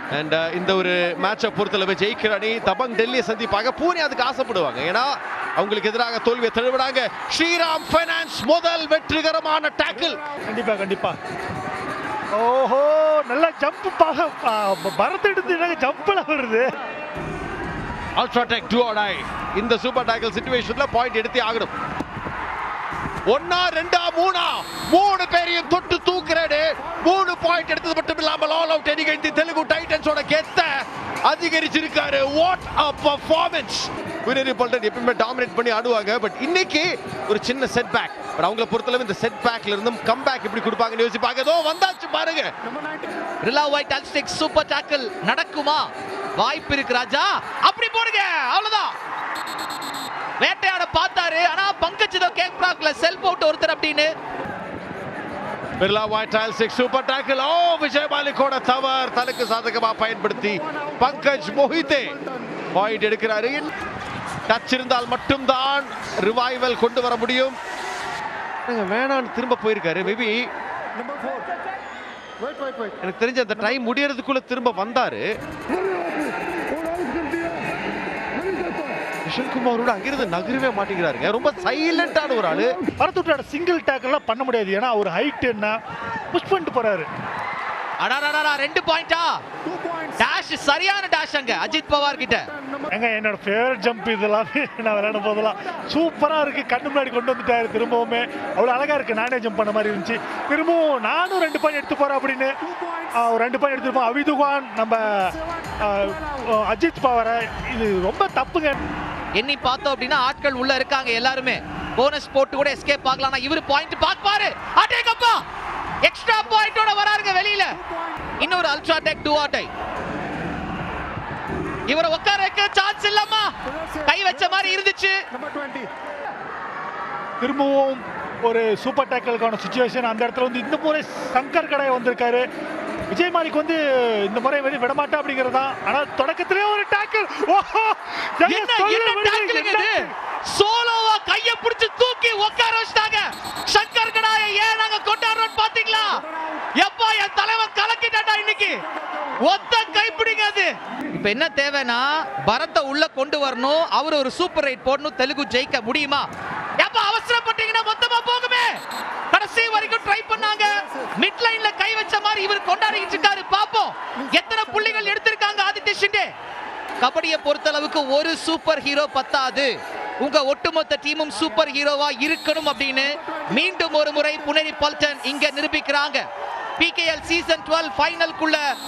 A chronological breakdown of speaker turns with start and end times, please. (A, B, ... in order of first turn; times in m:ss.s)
0:00.1-0:10.2 A
0:10.5-0:11.2 B
0:12.4-0:16.7 B
0:18.2-0:21.7 A
0:23.3-0:42.5 A
0:43.4-0:48.9 C
0:50.4-0:54.1 C
0:55.8-1:02.2 A
1:02.7-1:03.7 A
1:04.5-1:07.6 A
1:08.7-1:10.4 A
1:13.0-1:15.2 A
1:19.3-1:22.7 A
1:23.0-1:25.7 B
1:26.3-1:27.1 B
1:28.0-1:29.3 C
1:30.2-1:32.4 C
1:32.9-1:42.5 B
1:43.2-1:48.8 B
1:49.4-1:55.4 C
1:56.0-1:57.7 C
1:58.4-1:59.7 C
2:01.9-2:03.5 C
2:04.0-2:05.2 C
2:07.4-2:12.4 B
2:13.1-2:20.1 B
2:18.4-2:26.2 C
2:26.8-2:28.8 C
2:29.4-2:36.2 C
2:36.8-2:38.7 C
2:39.3-2:46.3 C
2:47.0-2:56.2 C
2:56.8-2:58.6 C